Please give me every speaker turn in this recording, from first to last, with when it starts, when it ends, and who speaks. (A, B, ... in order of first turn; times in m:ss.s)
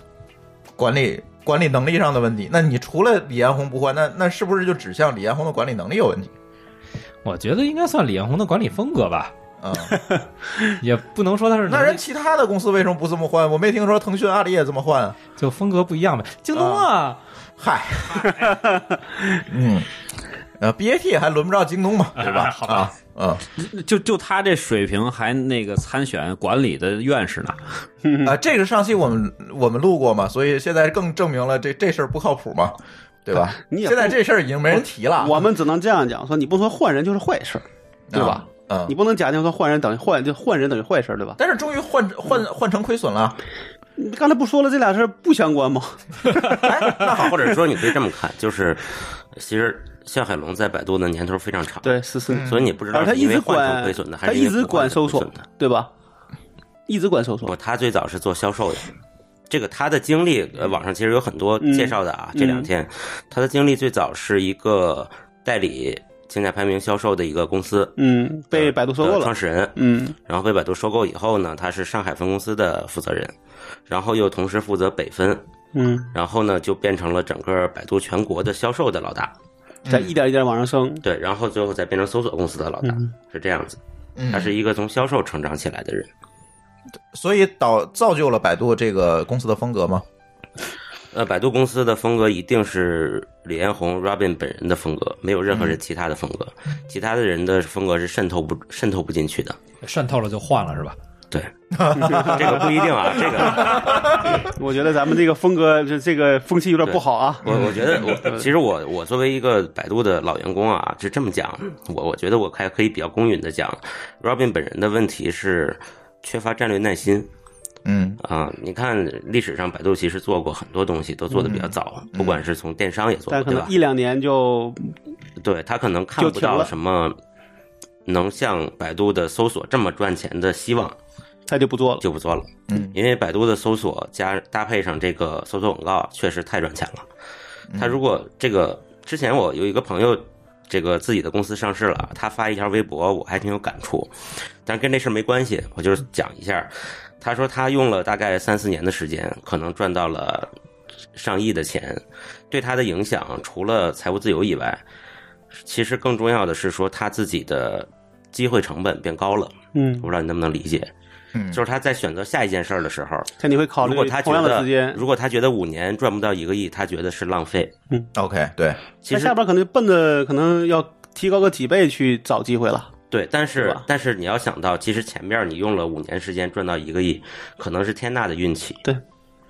0:00.8-0:06.3 A
0:07.2-0:09.3 B
0:09.6-0:10.0 A
0:09.9-0:10.2 C
0:10.8-0:12.0 B
0:11.7-0:15.2 A
0:15.4-0:17.2 B
0:16.5-0:16.9 A
0:17.6-0:18.3 A
0:18.0-0:18.8 D
0:19.5-0:19.9 A
0:20.6-0:23.4 A
0:22.2-0:22.9 B
0:23.6-0:27.7 D
0:28.0-0:28.4 C
0:28.2-0:35.5 A
0:33.4-0:41.4 C
0:38.1-0:39.0 A
0:41.4-0:43.4 A
0:44.0-0:46.5 C
0:46.5-0:47.6 A
0:46.8-0:55.4 E
0:51.8-0:55.9 C
0:52.3-0:52.7 A
0:56.9-0:57.5 C
0:57.4-0:58.9 E
0:59.5-1:08.0 E
1:01.6-1:02.7 C
1:08.0-1:10.2 C
1:08.5-1:13.3 E
1:13.9-1:15.4 E
1:15.8-1:16.1 C
1:16.1-1:19.3 E
1:19.8-1:20.1 A
1:19.9-1:21.0 C
1:21.0-1:23.8 E
1:22.8-1:23.1 C
1:24.2-1:24.6 A
1:24.3-1:26.1 E
1:27.1-1:30.0 A
1:31.1-1:39.6 E
1:35.5-1:35.8 A
1:39.8-1:41.0 B
1:41.7-1:44.3 A
1:41.9-1:48.5 C
1:42.0-1:44.4 E
1:46.8-1:57.3 E
1:47.5-1:47.8 A
1:57.8-1:58.2 A
1:58.2-2:03.7 E
2:01.3-2:02.4 A
2:03.3-2:05.0 C
2:05.4-2:07.2 E
2:06.2-2:06.7 C
2:08.1-2:11.0 E
2:11.5-2:12.0 C
2:12.0-2:17.1 E
2:12.7-2:13.0 A
2:17.7-2:18.0 A
2:17.8-2:24.1 E
2:24.6-2:30.5 E
2:31.2-2:34.8 E
2:35.6-2:40.9 E
2:39.8-2:40.1 C
2:41.4-2:41.6 A
2:41.5-2:47.7 E
2:43.4-2:45.0 C
2:48.2-2:48.8 A
2:49.0-2:49.4 E
2:49.1-2:52.9 C
2:53.1-2:58.8 E
2:53.6-2:53.8 C